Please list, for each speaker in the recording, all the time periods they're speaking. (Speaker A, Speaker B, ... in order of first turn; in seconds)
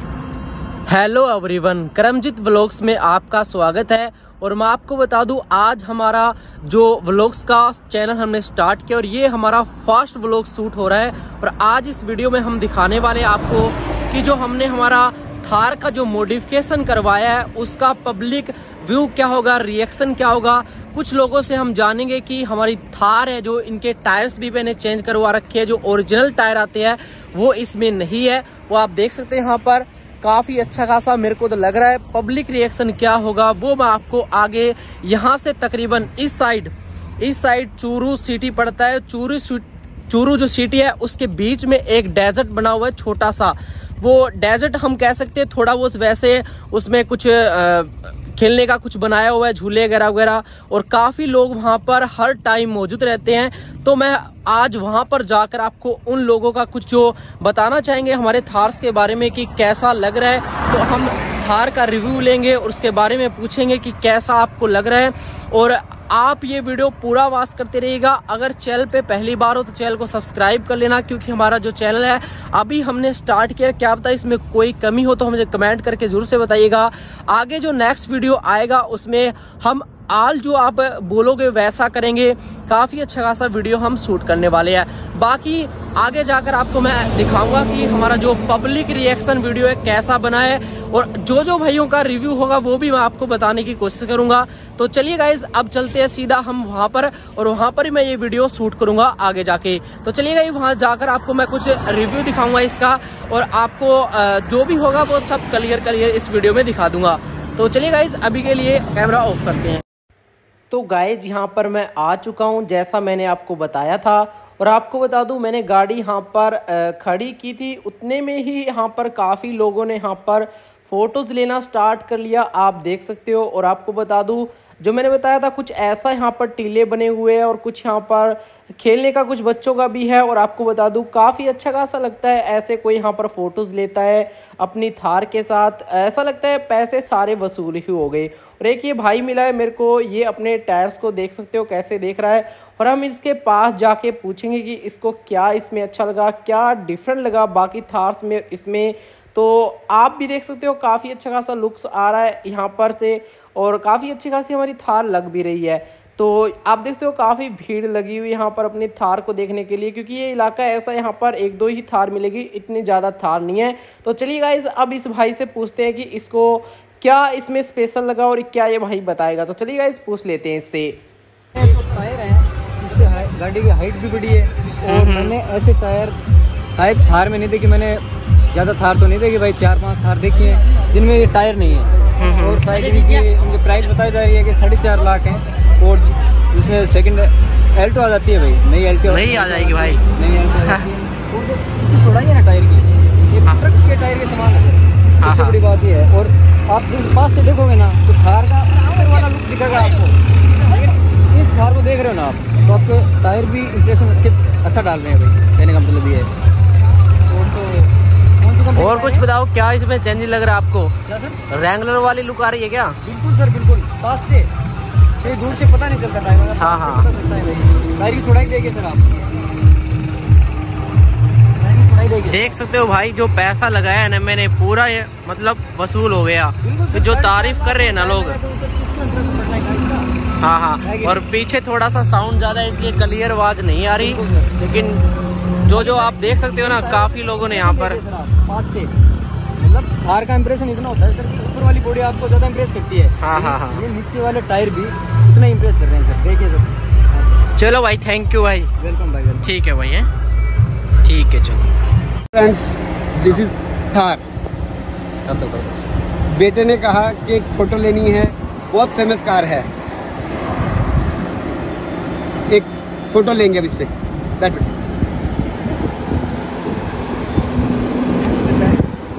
Speaker A: 0.9-109.8, 110.7-171.0, 174.8-175.4, 182.2-182.6, 189.1-190.0, 195.2-195.6, 208.8-210.9, 211.5-213.0, 216.6-217.1, 222.3-228.4, 230.4-235.0, 235.7-238.0, 243.2-243.8, 247.6-248.7, 249.4-250.1, 251.0-251.7, 255.3-255.9
Speaker B: 171.6-176.2, 176.7-200.2, 200.7-206.3, 207.3-209.2, 211.1-211.4, 213.0-214.5, 215.2-219.1, 221.6-222.5, 226.6-230.1, 230.8-231.2, 234.0-234.6, 235.7-238.9, 239.6-247.4, 248.8-249.5
Speaker C: 252.3-254.2, 256.3-259.7, 262.5-264.7, 268.2-268.9